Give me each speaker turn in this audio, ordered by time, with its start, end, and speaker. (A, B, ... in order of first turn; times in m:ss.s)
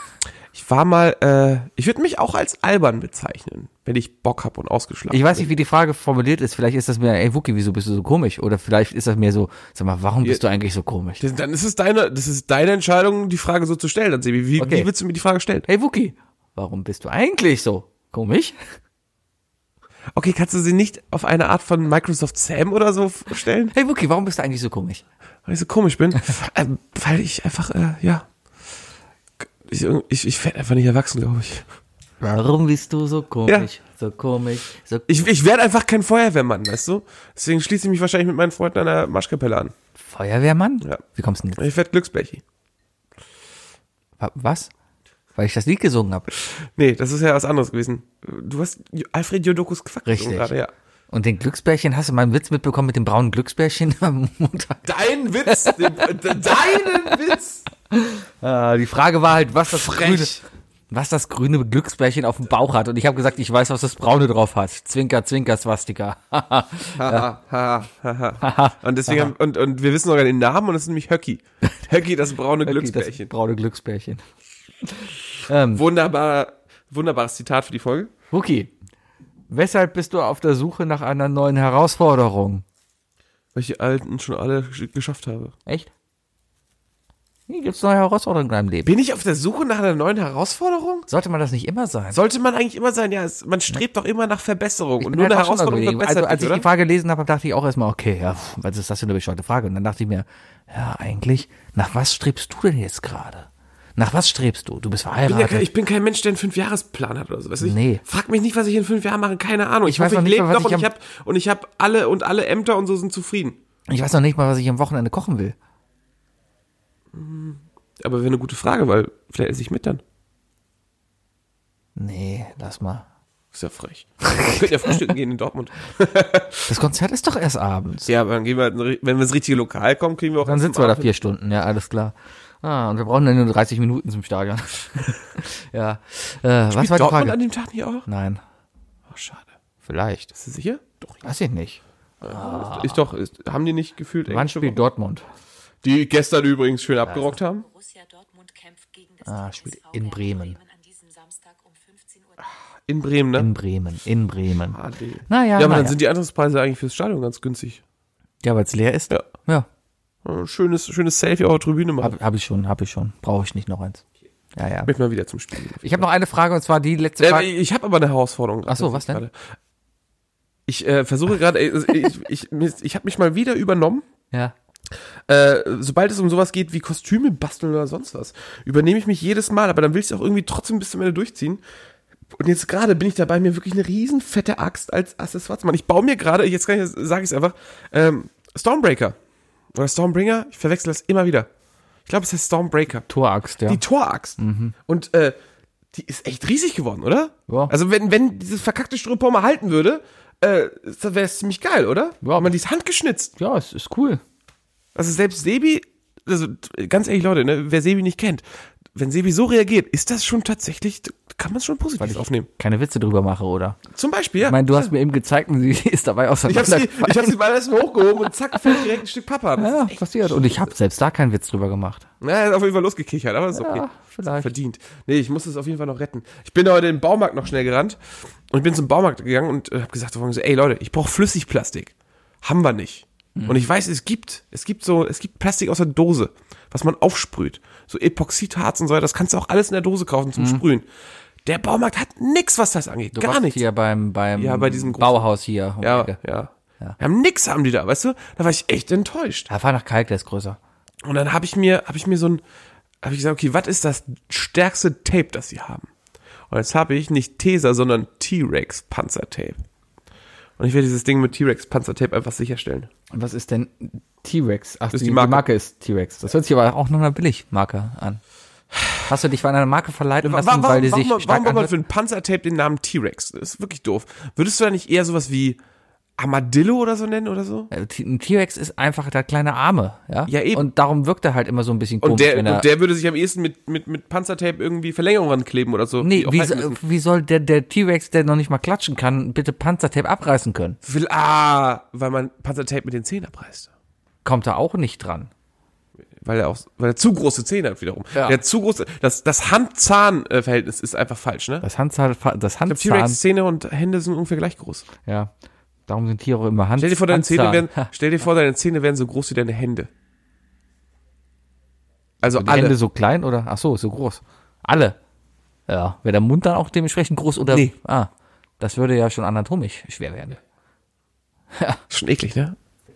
0:00.5-0:05.5 A
0:05.1-0:11.2 B
0:11.2-0:15.7 A
0:14.6-0:14.9 B
0:15.7-0:18.6 B
0:20.1-0:23.7 A
0:23.7-0:25.0 B
0:25.4-0:28.3 A
0:29.4-0:31.7 A
0:32.2-0:35.2 B
0:35.1-0:39.7 A
0:40.0-0:41.6 B
0:41.6-0:42.4 A
0:44.2-0:44.7 B
0:45.4-0:46.3 B
0:46.4-0:50.7 A
0:50.1-0:50.5 B
0:51.1-0:54.9 B
0:54.8-0:57.7 A
0:55.4-0:56.1 B
0:57.9-1:00.4 B
0:59.7-1:00.4 A
1:00.9-1:07.3 B
1:07.0-1:13.3 A
1:08.4-1:09.3 B
1:12.6-1:14.2 B
1:14.8-1:15.8 B
1:15.7-1:18.1 A
1:18.3-1:18.7 B
1:19.5-1:22.6 B
1:23.6-1:25.5 A
1:27.5-1:28.9 B
1:28.9-1:31.1 A
1:31.1-1:32.2 B
1:32.1-1:36.7 A
1:35.0-1:45.7 B
1:45.2-1:53.6 A
1:47.6-1:48.0 B
1:49.9-1:50.9 B
1:53.9-1:55.6 B
1:57.1-2:00.0 A
2:02.0-2:03.1 B
2:03.5-2:06.7 A
2:04.2-2:05.0 B
2:06.7-2:08.1 B
2:08.1-2:11.1 A
2:10.4-2:17.4 B
2:16.7-2:18.1 A
2:18.1-2:18.4 B
2:19.1-2:19.5 A
2:19.8-2:20.3 B
2:20.3-2:21.2 A
2:21.2-2:23.1 B
2:22.2-2:24.8 A
2:24.3-2:25.2 B
2:25.8-2:27.7 A
2:27.4-2:32.6 C
2:29.2-2:30.6 B
2:32.9-2:33.5 A
2:33.4-2:36.0 B
2:34.7-2:37.8 A
2:38.4-2:39.7 B
2:40.2-2:42.1 A
2:42.0-2:44.0 B
2:44.6-2:44.9 B
2:44.9-2:46.1 A
2:45.8-2:47.5 B
2:47.2-2:49.4 A
2:48.7-2:49.2 B
2:50.7-2:54.0 A
2:55.3-3:01.6 A
3:02.3-3:09.2 A
3:09.7-3:11.5 A
3:12.1-3:13.1 A
3:13.1-3:13.8 B
3:13.7-3:15.4 A
3:14.4-3:14.7 B
3:15.9-3:23.3 A
3:17.5-3:17.7 B
3:22.2-3:22.5 B
3:23.4-3:24.2 B
3:25.0-3:32.5 A
3:32.0-3:33.8 B
3:33.9-3:34.9 A
3:34.4-3:37.4 B
3:36.4-3:40.7 A
3:39.6-3:42.1 B
3:42.2-3:48.0 A
3:43.5-3:44.5 B
3:48.5-4:00.9 A
3:53.4-3:53.6 B
4:00.4-4:00.6 B
4:01.4-4:03.6 A
4:03.1-4:06.2 B
4:04.4-4:05.3 A
4:05.8-4:09.5 A
4:09.5-4:10.6 B
4:11.0-4:12.4 A
4:13.0-4:15.9 A
4:16.5-4:19.6 A
4:20.6-4:22.9 A
4:23.1-4:28.2 B
4:24.9-4:25.4 A
4:29.1-4:31.7 B
4:30.2-4:35.6 A
4:36.2-4:37.7 A
4:37.7-4:42.7 B
4:40.3-4:40.7 A
4:42.0-4:46.8 A
4:46.0-4:50.8 B
4:50.8-4:53.7 A
4:54.2-4:55.3 B
4:56.2-5:01.6 A
4:58.1-4:58.4 B
5:01.6-5:03.2 B
5:02.7-5:04.9 A
5:05.0-5:05.3 B
5:05.9-5:07.9 B
5:06.8-5:09.9 A
5:12.2-5:12.8 A
5:12.3-5:15.0 B
5:15.7-5:20.4 B
5:17.5-5:17.7 A
5:21.6-5:21.8 B
5:21.9-5:22.6 A